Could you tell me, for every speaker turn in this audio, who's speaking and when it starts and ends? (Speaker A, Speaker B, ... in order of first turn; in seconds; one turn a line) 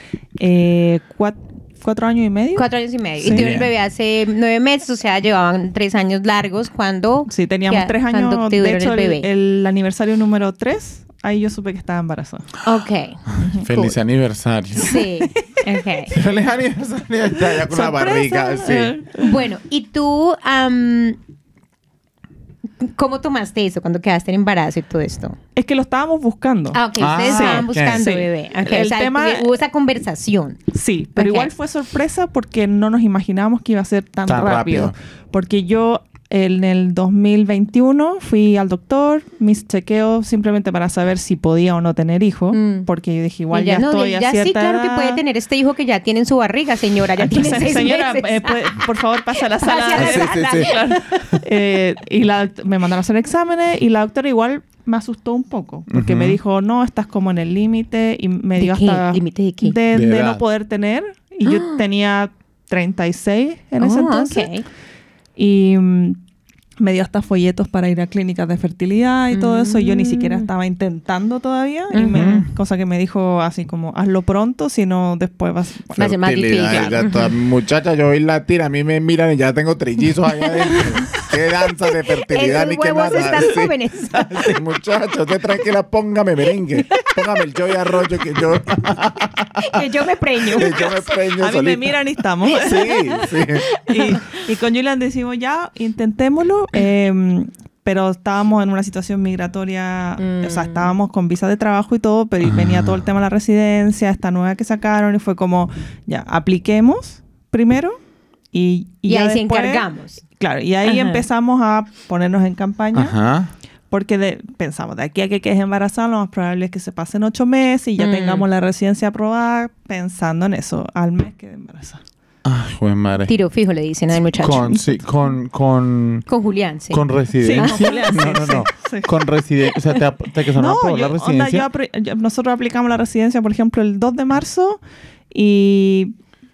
Speaker A: 0.4-2.7
Speaker B: 2.6-9.3
Speaker C: 3.2-3.7
Speaker A: 7.3-12.5
Speaker B: 12.6-13.2
Speaker A: 13.4-14.0
Speaker C: 13.4-14.9
Speaker B: 14.8-16.1
Speaker C: 16.1-19.0
Speaker A: 17.4-19.4
Speaker B: 19.1-21.2
Speaker B: 22.8-25.4
Speaker A: 25.6-29.5
Speaker B: 26.7-30.6
Speaker C: 27.0-28.0
Speaker A: 30.7-45.2
Speaker B: 31.2-31.5
Speaker C: 34.3-34.9
Speaker B: 42.5-42.9
Speaker B: 43.5-48.9
Speaker A: 47.2-64.5
Speaker B: 49.6-51.0
Speaker C: 50.0-51.4
Speaker C: 55.9-56.4
Speaker B: 58.6-59.8
Speaker C: 59.9-60.4
Speaker B: 61.5-61.8
Speaker B: 63.8-64.7
Speaker A: 65.4-66.2
Speaker A: 66.8-77.0
Speaker B: 69.3-70.5
Speaker B: 71.9-72.5
Speaker C: 72.1-72.4
Speaker C: 76.0-89.8
Speaker B: 76.0-77.3
Speaker B: 80.4-81.3
Speaker B: 81.9-84.5
Speaker B: 86.8-87.2
Speaker B: 89.6-90.8
Speaker C: 90.5-92.0
Speaker A: 90.6-93.2
Speaker C: 92.5-93.7
Speaker B: 92.8-94.4
Speaker A: 93.9-108.0
Speaker B: 100.2-100.9
Speaker C: 102.4-103.0
Speaker A: 108.5-109.9
Speaker B: 109.1-110.2
Speaker A: 110.4-113.2
Speaker B: 110.8-111.2
Speaker C: 112.9-113.5
Speaker A: 113.9-122.0
Speaker B: 118.0-118.5
Speaker C: 122.5-123.3
Speaker B: 123.3-124.8
Speaker C: 124.4-126.2
Speaker B: 126.3-128.1
Speaker C: 126.9-131.7
Speaker A: 127.4-129.1
Speaker A: 130.5-134.8
Speaker A: 135.3-136.1